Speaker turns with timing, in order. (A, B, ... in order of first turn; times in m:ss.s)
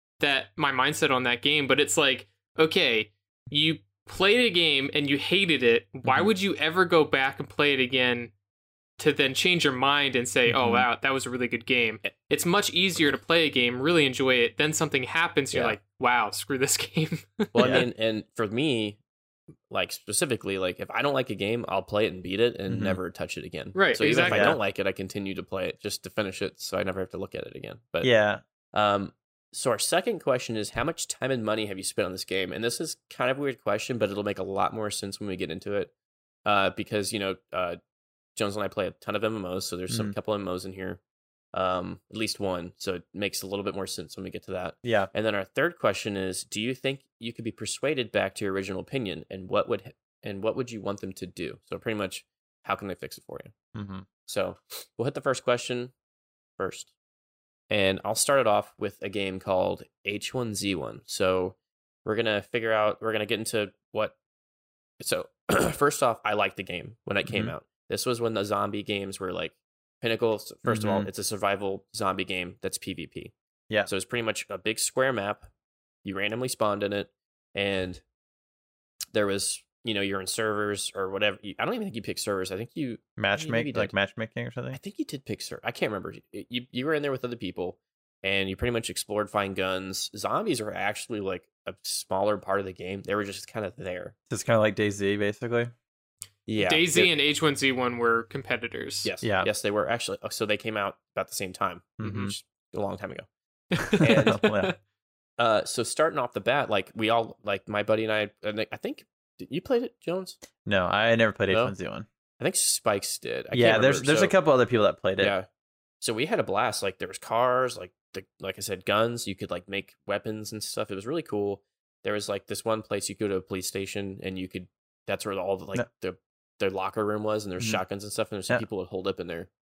0:00.2-0:08.3 A
0:06.0-0:06.3 B
0:09.0-0:17.8 A
0:10.5-0:10.8 B
0:15.5-0:15.8 C
0:17.5-0:19.0 C
0:17.6-0:17.8 B
0:19.7-0:28.1 C
0:22.7-0:23.0 B
0:23.7-0:24.6 A
0:24.3-0:24.6 B
0:28.0-0:28.4 B
0:28.7-0:35.9 C
0:36.4-0:37.8 C
0:38.3-0:41.0 C
0:39.9-0:40.2 B
0:41.5-0:53.5 C
0:44.8-0:45.1 B
0:53.7-0:54.0 B
0:54.2-0:55.9 C
0:56.6-0:56.9 C
0:57.7-1:04.1 C
1:05.0-1:13.3 C
1:07.2-1:07.5 B
1:10.6-1:11.1 B
1:13.8-1:15.5 C
1:16.0-1:18.0 C
1:19.1-1:23.9 C
1:23.2-1:24.8 B
1:24.7-1:34.1 C
1:34.3-1:35.7 B
1:36.5-1:37.1 C
1:36.6-1:39.1 A
1:39.0-1:43.3 C
1:39.2-1:39.5 B
1:42.0-1:42.3 B
1:43.7-1:44.8 A
1:44.0-1:44.4 C
1:44.1-1:44.7 B
1:45.4-1:50.4 C
1:50.6-1:52.1 B
1:52.4-1:54.3 C
1:53.5-1:55.3 B
1:55.2-1:55.5 C
1:56.0-2:09.5 C